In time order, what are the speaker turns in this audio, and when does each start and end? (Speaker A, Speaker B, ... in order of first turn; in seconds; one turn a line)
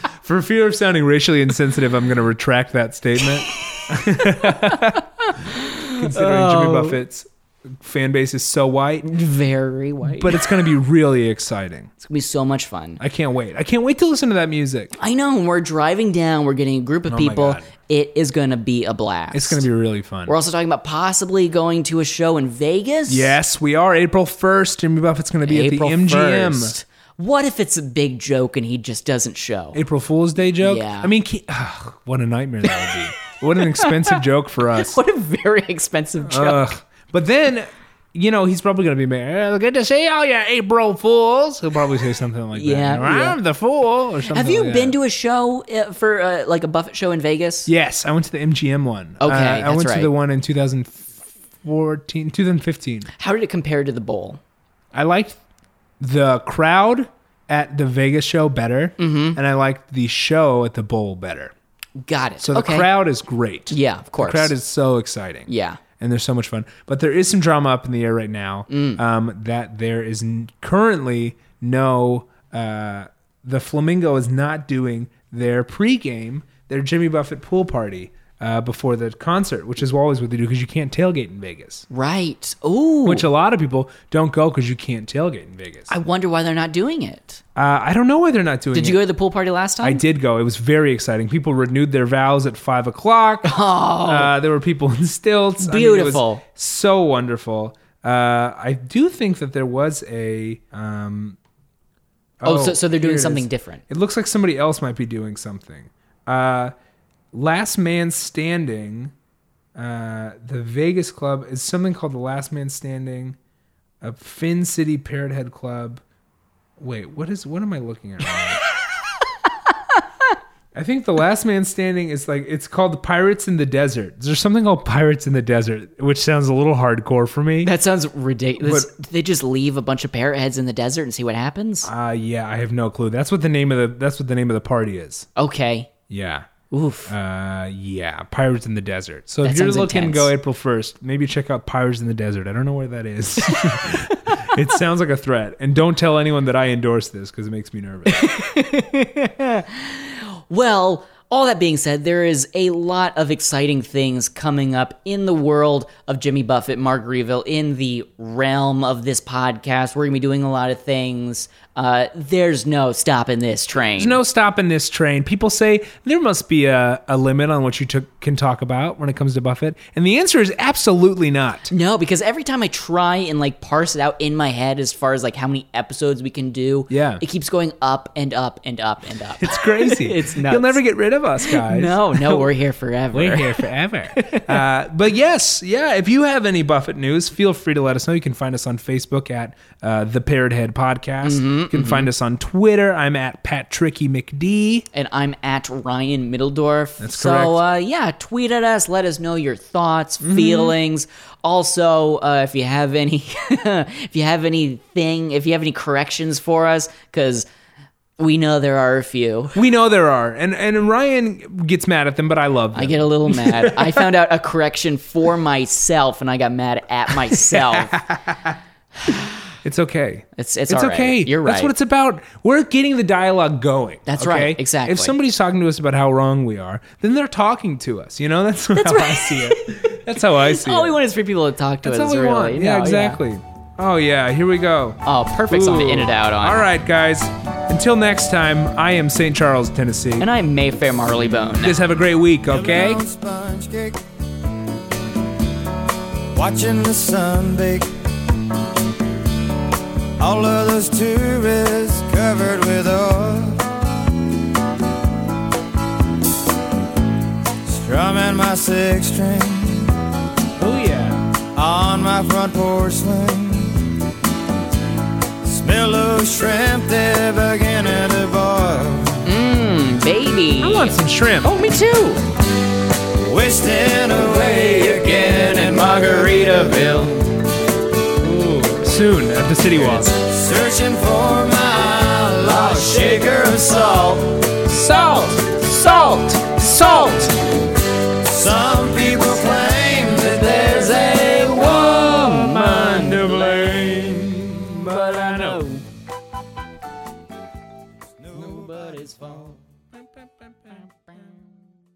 Speaker A: 0.2-9.1
Speaker B: 3.7-7.0
Speaker B: 9.0-10.4
Speaker A: 10.0-11.9
Speaker B: 12.0-13.0
Speaker A: 13.0-14.9
Speaker B: 14.9-19.6
Speaker A: 17.1-17.7
Speaker A: 19.3-20.3
Speaker B: 20.3-23.4
Speaker A: 23.1-26.7
Speaker B: 25.4-29.8
Speaker A: 29.7-35.0
Speaker B: 30.6-31.1
Speaker B: 33.6-34.2
Speaker B: 34.7-36.7
Speaker A: 36.2-45.0
Speaker B: 42.5-43.4
Speaker B: 44.3-47.7
Speaker A: 47.7-53.1
Speaker B: 49.2-50.1
Speaker B: 53.2-54.4
Speaker A: 54.9-55.4
Speaker A: 56.0-61.5
Speaker B: 59.0-59.4
Speaker B: 62.0-62.9
Speaker A: 62.4-65.5
Speaker B: 63.7-64.5
Speaker B: 65.5-65.8
Speaker A: 66.0-81.8
Speaker B: 68.7-69.0
Speaker B: 81.9-83.2
Speaker A: 83.0-85.9
Speaker B: 85.9-87.4
Speaker A: 87.5-89.0
Speaker B: 88.7-90.0
Speaker A: 89.8-101.4
Speaker B: 93.4-94.3
Speaker B: 95.6-96.4
Speaker A: 102.4-106.7
Speaker B: 102.4-103.8
Speaker A: 107.3-109.1
Speaker A: 109.8-113.4
Speaker A: 114.0-116.0
Speaker A: 116.8-118.7
Speaker A: 120.7-127.7
Speaker B: 127.6-131.9
Speaker A: 128.6-128.9
Speaker A: 131.8-135.3
Speaker B: 135.3-135.9
Speaker A: 136.1-136.5
Speaker B: 136.7-137.1
Speaker A: 137.1-148.4
Speaker B: 139.4-140.3
Speaker B: 148.1-164.2
Speaker A: 163.9-171.7
Speaker B: 171.7-180.8
Speaker A: 176.9-177.2
Speaker A: 179.4-182.5
Speaker B: 181.4-184.6
Speaker A: 183.1-194.9
Speaker B: 191.2-192.1
Speaker B: 194.9-207.5
Speaker A: 197.0-197.6
Speaker A: 200.2-200.7
Speaker B: 208.2-209.5
Speaker A: 209.5-214.1
Speaker B: 212.7-217.9
Speaker A: 217.1-231.0
Speaker B: 220.3-221.7
Speaker B: 224.1-225.2
Speaker B: 228.7-233.2
Speaker A: 231.8-240.3
Speaker B: 235.0-236.6
Speaker B: 240.2-241.8
Speaker A: 241.5-243.0
Speaker C: 242.5-244.0
Speaker C: 246.3-247.9
Speaker C: 250.2-253.7
Speaker C: 257.6-259.9
Speaker A: 260.6-261.2
Speaker C: 261.5-263.9
Speaker C: 265.4-269.2
Speaker B: 269.2-272.2
Speaker A: 270.6-271.6
Speaker C: 273.2-277.3
Speaker C: 278.2-278.8
Speaker A: 278.8-280.1
Speaker C: 279.9-284.6
Speaker A: 284.6-287.4
Speaker C: 288.1-292.2
Speaker A: 291.3-295.8
Speaker C: 298.2-299.6